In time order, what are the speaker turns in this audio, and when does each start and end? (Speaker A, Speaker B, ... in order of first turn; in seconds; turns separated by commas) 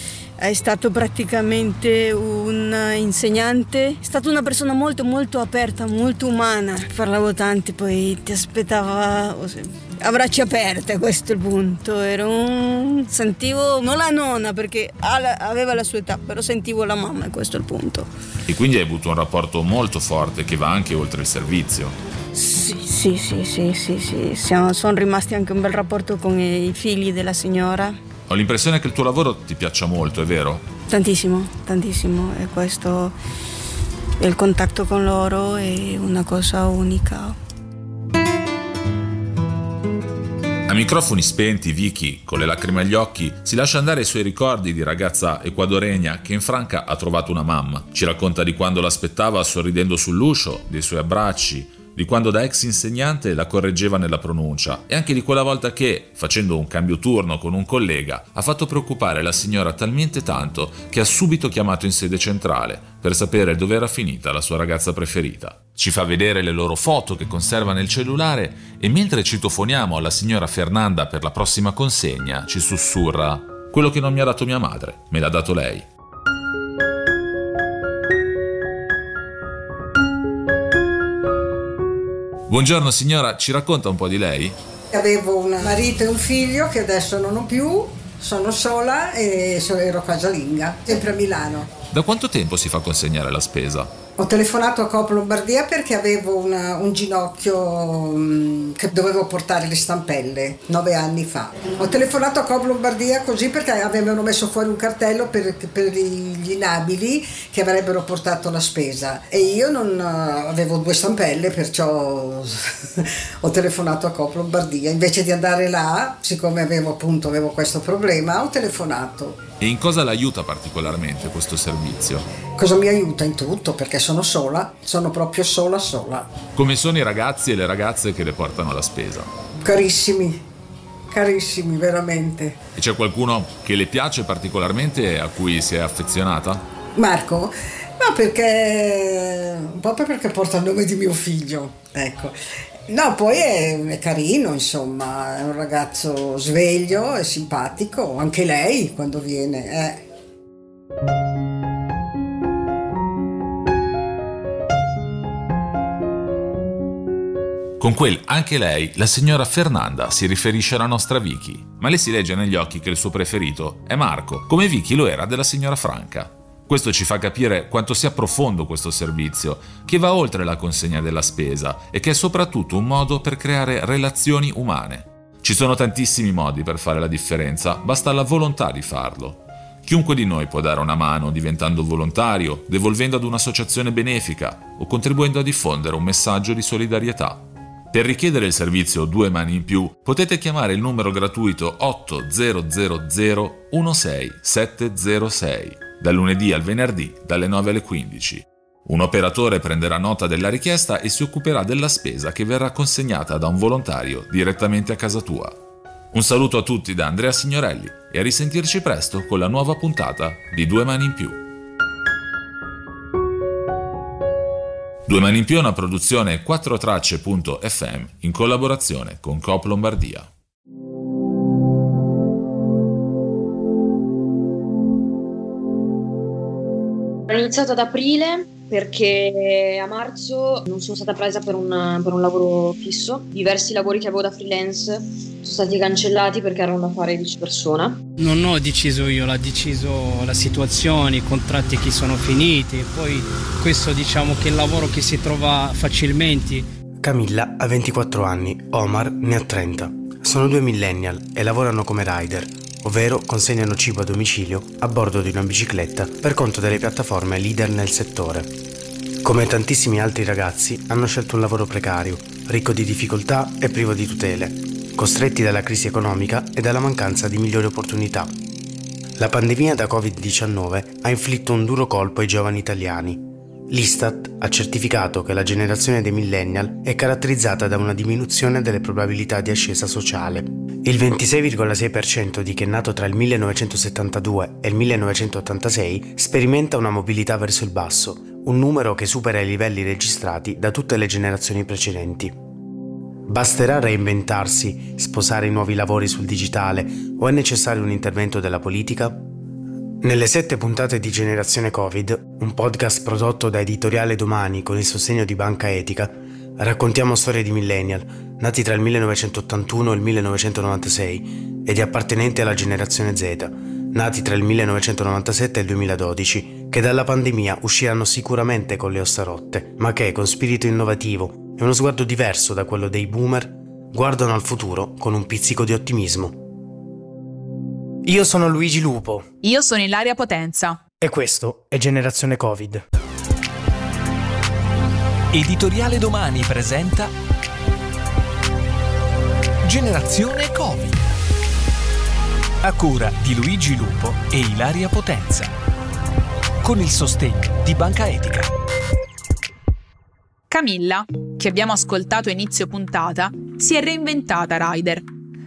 Speaker A: 0.4-18.1, Speaker B: 18.5-21.9, Speaker A: 22.3-28.0, Speaker B: 28.3-30.7, Speaker A: 30.9-33.1, Speaker A: 34.2-37.4, Speaker B: 40.7-75.8, Speaker B: 82.5-84.5, Speaker C: 84.9-91.7, Speaker B: 91.9-94.0, Speaker C: 94.2-112.6, Speaker C: 113.4-119.4, Speaker B: 119.6-122.3, Speaker C: 122.5-126.4, Speaker B: 126.5-129.3, Speaker C: 129.6-130.4, Speaker C: 131.1-132.6, Speaker B: 132.8-136.6, Speaker C: 136.9-142.3, Speaker C: 142.9-150.1, Speaker B: 157.8-205.6, Speaker B: 206.1-211.4, Speaker B: 215.1-220.3, Speaker D: 227.3-238.0, Speaker E: 238.2-246.7, Speaker F: 247.1-258.4, Speaker F: 259.2-268.3, Speaker F: 269.2-273.1, Speaker F: 273.7-292.3, Speaker F: 293.3-299.2, Speaker F: 300.0-326.3, Speaker G: 328.0-329.3, Speaker H: 329.4-330.8, Speaker G: 331.0-332.8, Speaker I: 335.3-337.1, Speaker I: 339.6-341.1, Speaker I: 342.6-345.6, Speaker I: 346.6-348.5, Speaker H: 350.5-355.1